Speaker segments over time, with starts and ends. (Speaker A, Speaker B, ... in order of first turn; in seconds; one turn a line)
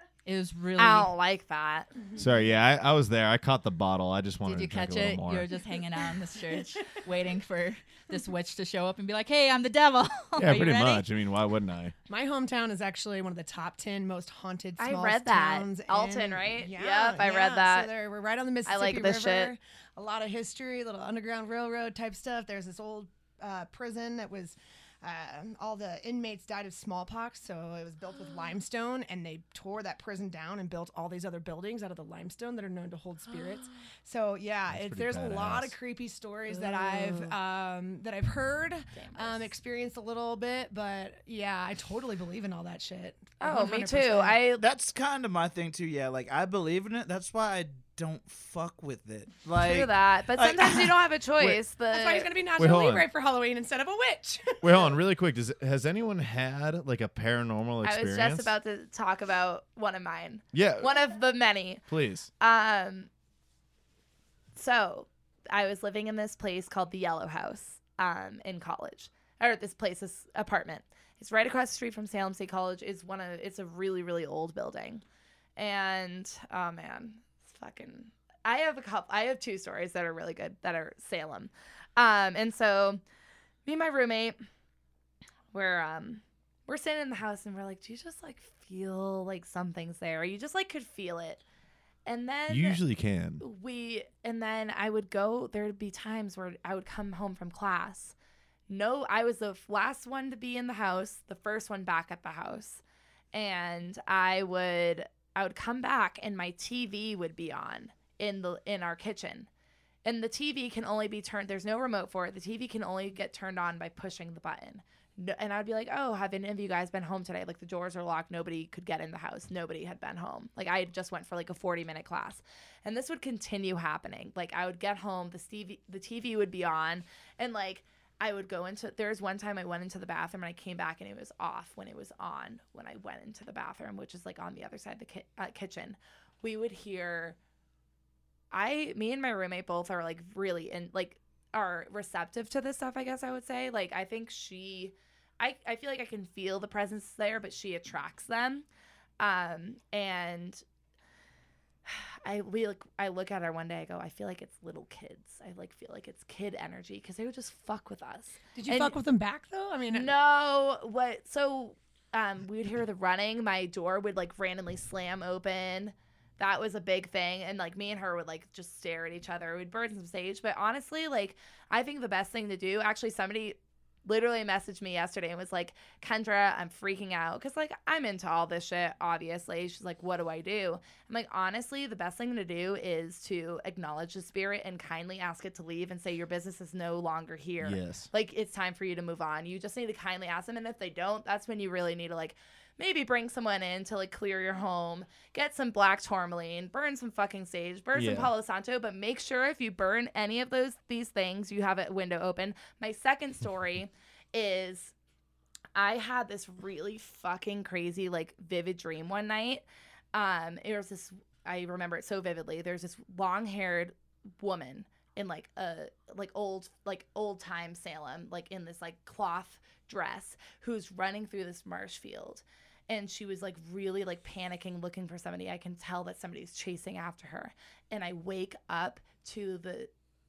Speaker A: 0.2-1.1
Speaker B: 0.8-1.9
Speaker C: 2.2-5.5
Speaker A: 4.5-11.1
Speaker C: 10.4-11.9
Speaker D: 12.1-44.4
Speaker B: 14.8-17.9
Speaker B: 18.6-19.5
Speaker C: 34.7-35.8
Speaker B: 36.5-37.4
Speaker B: 38.9-39.5
Speaker B: 43.4-44.6
Speaker E: 44.5-50.9
Speaker B: 49.6-52.3
Speaker D: 51.8-54.8
Speaker C: 52.6-53.1
Speaker C: 54.6-58.5
Speaker B: 57.8-61.8
Speaker C: 60.5-60.9
Speaker C: 61.9-62.3
Speaker B: 62.4-63.1
Speaker B: 64.6-75.0
Speaker B: 75.6-83.0
Speaker B: 83.7-84.4
Speaker B: 85.5-91.4
Speaker B: 92.1-92.8
Speaker C: 92.5-93.4
Speaker B: 93.4-98.2
Speaker B: 98.7-102.8
Speaker B: 103.3-109.5
Speaker B: 110.0-137.4
Speaker B: 138.5-148.7
Speaker B: 149.2-150.6
Speaker B: 151.9-159.0
Speaker D: 158.6-160.1
Speaker B: 159.9-204.9
Speaker C: 187.6-188.1
Speaker C: 197.9-198.3
Speaker B: 205.8-229.9